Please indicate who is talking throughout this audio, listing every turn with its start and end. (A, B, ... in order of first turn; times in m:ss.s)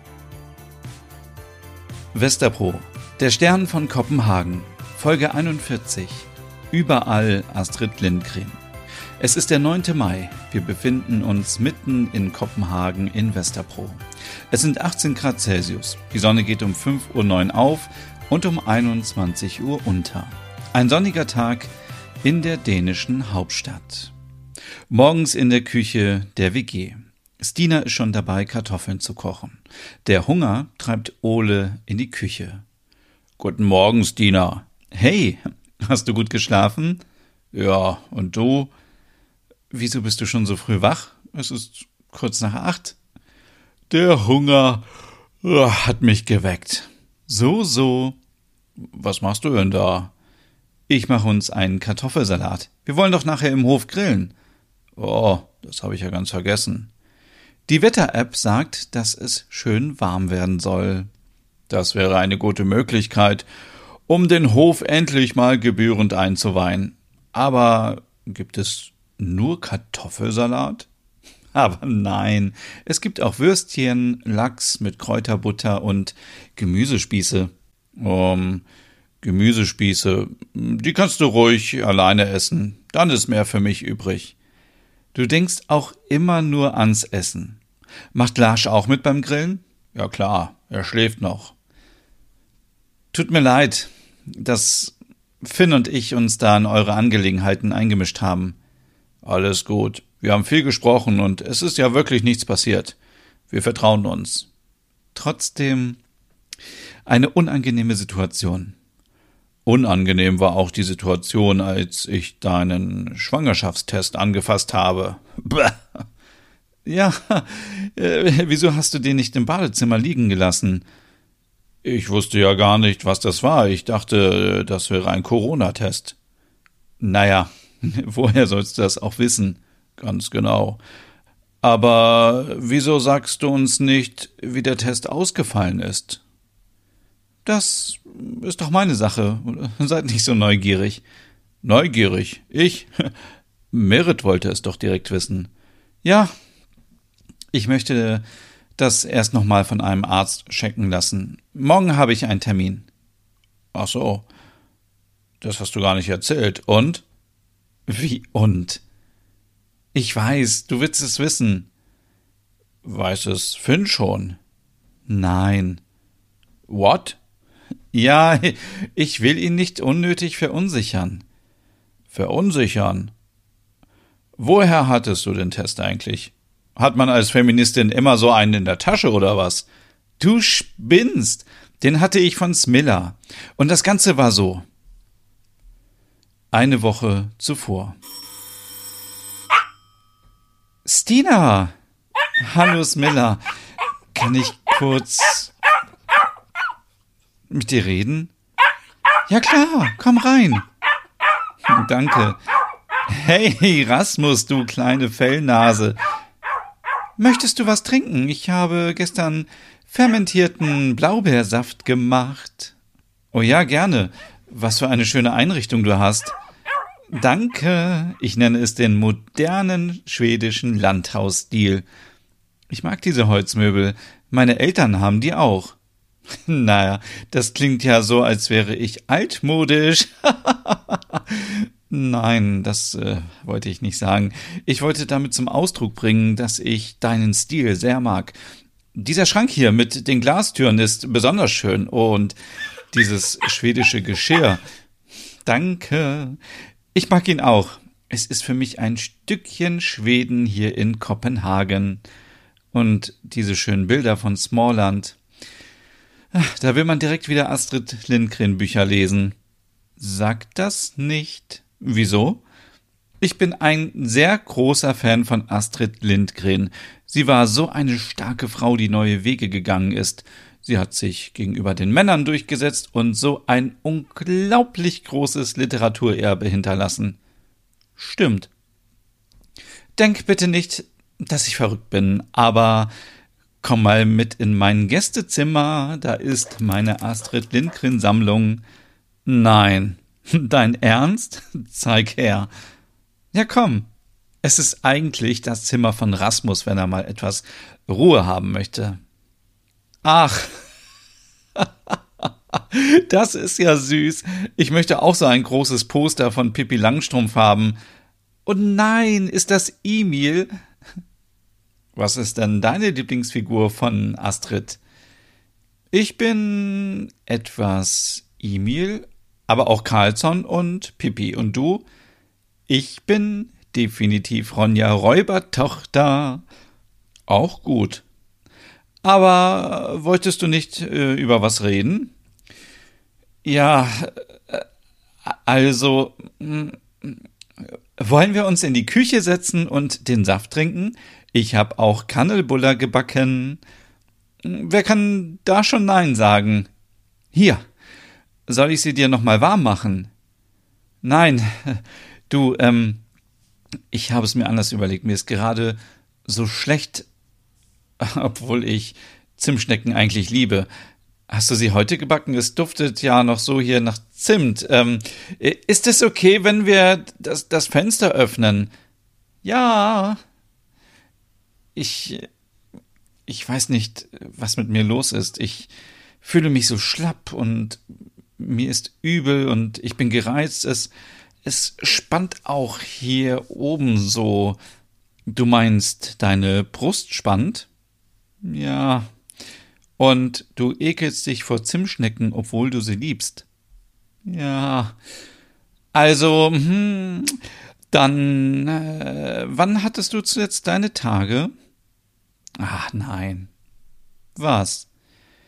0:02.1-0:08.6 A
0:09.2-0:21.7 A
0:22.2-0:24.1 A
0:24.9-0:32.6 A
0:33.4-0:37.0 A
0:37.5-0:38.7 A
0:39.7-0:43.0 A
0:43.9-0:44.9 A
0:45.4-0:48.2 A
0:48.9-0:50.1 A
0:50.9-0:54.3 A
0:55.0-0:56.9 A
0:57.7-1:01.1 A
1:01.7-1:03.5 A
1:04.1-1:10.9 A
1:11.5-1:18.6 A
1:19.2-1:24.4 A
1:25.1-1:27.6 A
1:28.1-1:31.6 A
1:33.1-1:38.6 A
1:39.2-1:43.0 A
1:43.5-1:44.5 A
1:45.1-1:46.0 A
1:47.1-1:48.8 A
1:49.6-1:55.8 A
1:56.8-2:00.8 A
2:01.8-2:06.2 A
2:07.0-2:10.8 A
2:11.6-2:16.2 A
2:17.4-2:21.0 A
2:21.6-2:23.1 A
2:23.7-2:25.5 A
2:26.0-2:26.3 A
2:27.5-2:28.2 A
2:28.8-2:32.9 A
2:33.7-2:34.3 A
2:35.4-2:37.0 A
2:37.9-2:38.8 A
2:39.9-2:41.7 A
2:42.8-2:44.4 A
2:45.1-2:45.8 A
2:46.7-2:47.2 A
2:47.9-2:51.2 A
2:52.1-2:53.1 A
2:54.4-2:59.7 A
3:00.2-3:04.7 A
3:06.5-3:08.0 A
3:10.8-3:11.7 A
3:12.4-3:13.4 A
3:14.1-3:15.5 A
3:17.5-3:18.3 A
3:19.3-3:20.6 A
3:21.7-3:22.4 A
3:23.1-3:26.0 A
3:27.2-3:32.8 A
3:33.3-3:36.4 A
3:37.1-3:41.8 A
3:42.7-3:45.8 A
3:46.4-3:58.4 A
3:58.9-4:02.4 A
4:02.9-4:04.6 A
4:05.5-4:06.4 A
4:06.9-4:12.0 A
4:12.7-4:15.2 A
4:16.3-4:19.4 A
4:20.0-4:22.4 A
4:23.2-4:37.2 A
4:38.0-4:38.5 A
4:40.0-4:42.9 A
4:43.6-4:48.6 A
4:49.2-4:52.5 A
4:53.3-4:53.9 A
4:54.4-4:59.0 A
5:00.0-5:00.6 A
5:01.6-5:07.8 A
5:08.5-5:10.5 A
5:12.0-5:14.8 A
5:15.9-5:21.8 A
5:22.7-5:26.4 A
5:27.3-5:28.0 A
5:29.0-5:32.1 A
5:33.4-5:34.6 A
5:35.2-5:37.2 A
5:38.0-5:43.6 A
5:44.4-5:46.7 A
5:47.3-5:47.6 A
5:48.5-5:50.1 A
5:51.0-5:53.0 A
5:53.9-5:57.1 A
5:58.0-6:00.7 A
6:01.3-6:08.7 A
6:09.4-6:10.2 A
6:11.8-6:12.3 A
6:13.3-6:15.7 A
6:16.2-6:17.8 A
6:18.4-6:20.9 A
6:21.4-6:24.6 A
6:25.3-6:27.7 A
6:28.4-6:29.1 A
6:30.0-6:33.5 A
6:34.2-6:35.0 A
6:35.9-6:37.4 A
6:37.9-6:41.5 A
6:42.6-6:43.5 A
6:44.4-6:44.9 A